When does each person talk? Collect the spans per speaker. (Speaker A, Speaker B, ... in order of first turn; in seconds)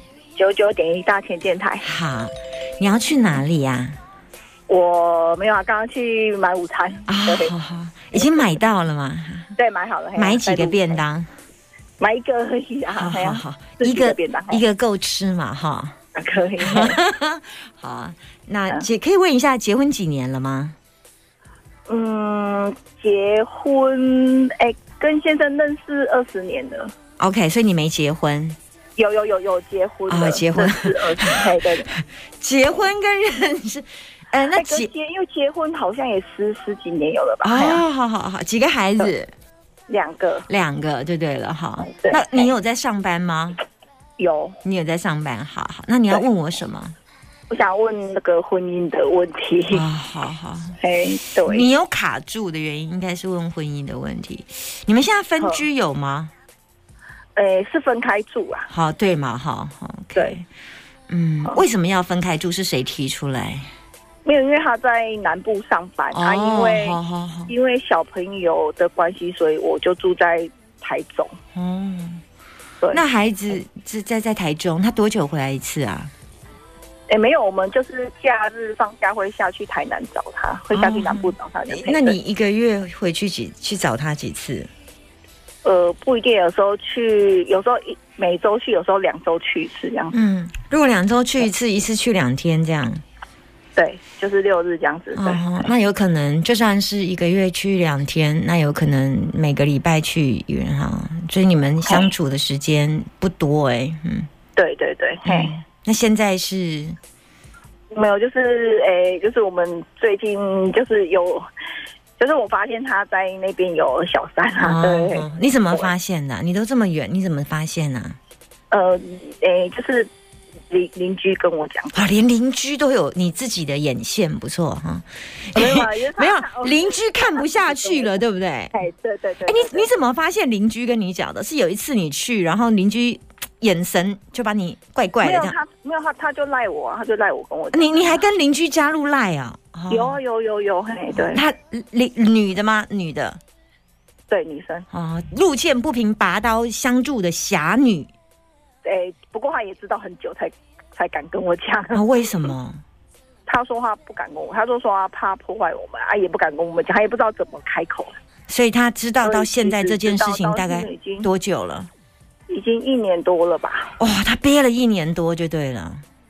Speaker A: 0.3-1.9, 4.7-7.5, 8.1-8.5, 9.6-11.0, 12.0-14.6, 16.1-17.0, 21.9-26.9, 29.0-31.9, 34.5-37.8, 39.9-40.5, 41.8-42.5, 44.2-44.6, 47.5-49.8, 50.8-51.7, 55.4-55.6, 57.4-58.7, 64.2-67.0, 67.5-71.3, 77.1-82.2, 85.6-90.2, 93.8-95.4, 104.6-105.6, 107.9-111.4, 112.2-115.9, 118.7-120.1, 120.7-121.9, 125.5-128.2, 128.7-129.9, 135.2-138.2, 139.9-141.4, 144.3-144.9, 148.8-152.0, 153.5-158.1, 159.2-161.3, 162.5-163.9
Speaker B: 1.8-4.0, 7.1-9.6, 10.2-11.3, 12.9-16.0, 16.6-20.8, 27.2-28.6, 30.1-34.9, 37.4-39.3, 40.5-43.6, 44.6-46.9, 49.7-50.8, 51.5-56.3, 58.7-60.5, 61.1-63.7, 66.1-67.5, 71.5-72.2, 72.9-76.1, 80.7-84.7, 90.1-93.0, 95.1-104.3, 105.2-107.0, 114.6-118.2, 121.9-128.8, 129.4-135.6, 137.7-140.2, 141.1-143.4, 144.9-148.1, 151.9-152.8, 158.5-161.9, 164.0-166.0